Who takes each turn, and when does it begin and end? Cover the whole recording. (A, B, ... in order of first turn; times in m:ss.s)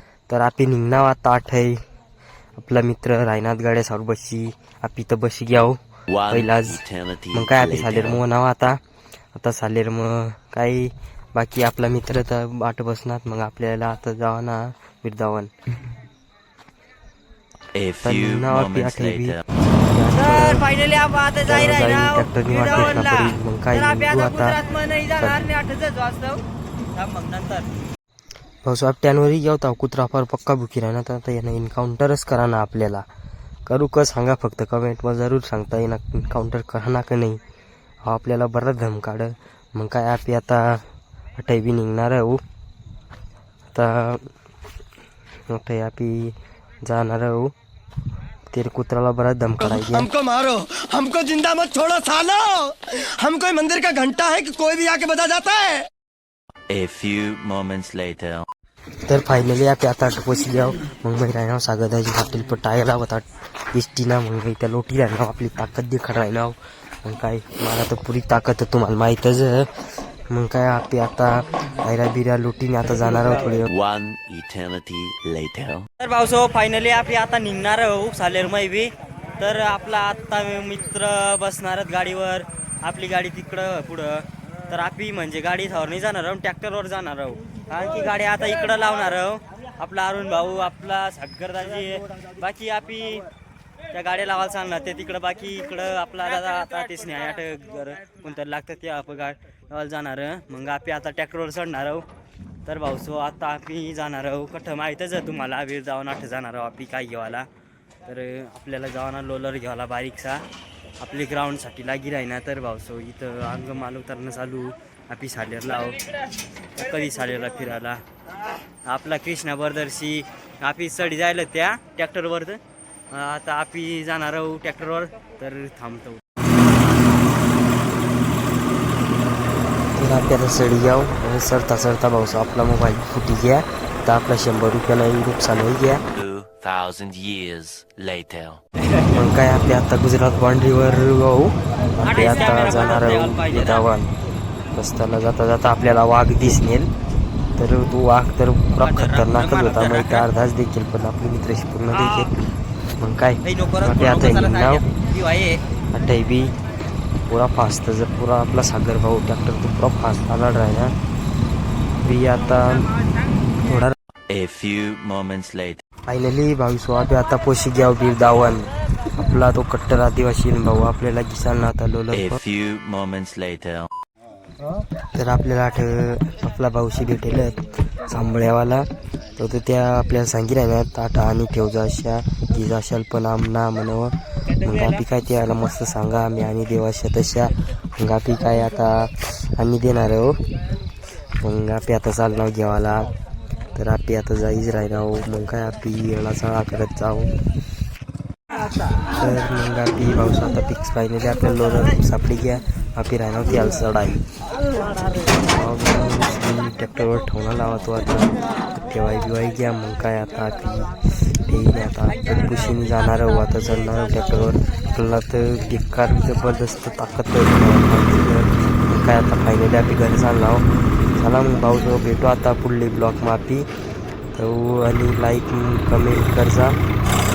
0:00.3-0:01.8 A
0:02.6-0:06.8 A
0:06.1-0:08.2 B
0:07.3-0:08.8 A
0:09.3-0:15.5 A
0:17.7-0:19.4 B
0:18.0-0:20.6 A
0:20.1-0:26.4 C
0:21.5-0:24.6 A
0:25.2-0:25.5 A
0:26.9-0:27.7 C
0:28.6-0:33.0 A
0:33.6-0:37.4 A
0:38.0-0:40.8 A
0:41.4-0:42.4 A
0:43.7-0:44.3 A
0:45.5-0:46.3 A
0:46.8-0:47.5 A
0:48.5-0:50.1 A
0:49.6-0:55.9 D
0:56.7-0:58.4 B
0:59.1-1:13.7 A
1:13.7-1:15.9 B
1:16.0-1:33.2 C
1:33.9-1:42.0 C
1:42.6-1:47.5 C
1:48.0-1:50.4 C
1:51.0-1:56.0 C
1:56.7-1:58.0 C
1:58.8-2:02.6 C
2:03.1-2:06.2 C
2:09.9-2:16.0 A
2:16.1-2:18.6 B
2:19.1-2:24.1 A
2:22.0-2:23.8 C
2:24.7-2:26.9 A
2:27.6-2:32.3 A
2:28.8-2:30.3 C
2:31.9-2:32.3 C
2:33.0-2:34.8 A
2:33.4-2:35.6 C
2:35.9-2:36.5 A
2:37.3-2:40.9 A
2:42.0-2:42.9 A
2:43.6-2:43.9 A
2:44.3-2:45.8 B
2:46.1-2:52.4 A
2:52.1-2:53.9 B
2:55.1-3:10.4 A
3:11.4-3:13.1 A
3:13.7-3:17.3 A
3:19.1-3:24.2 A
3:25.4-3:40.6 A
3:41.2-3:43.7 A
3:44.3-3:46.8 A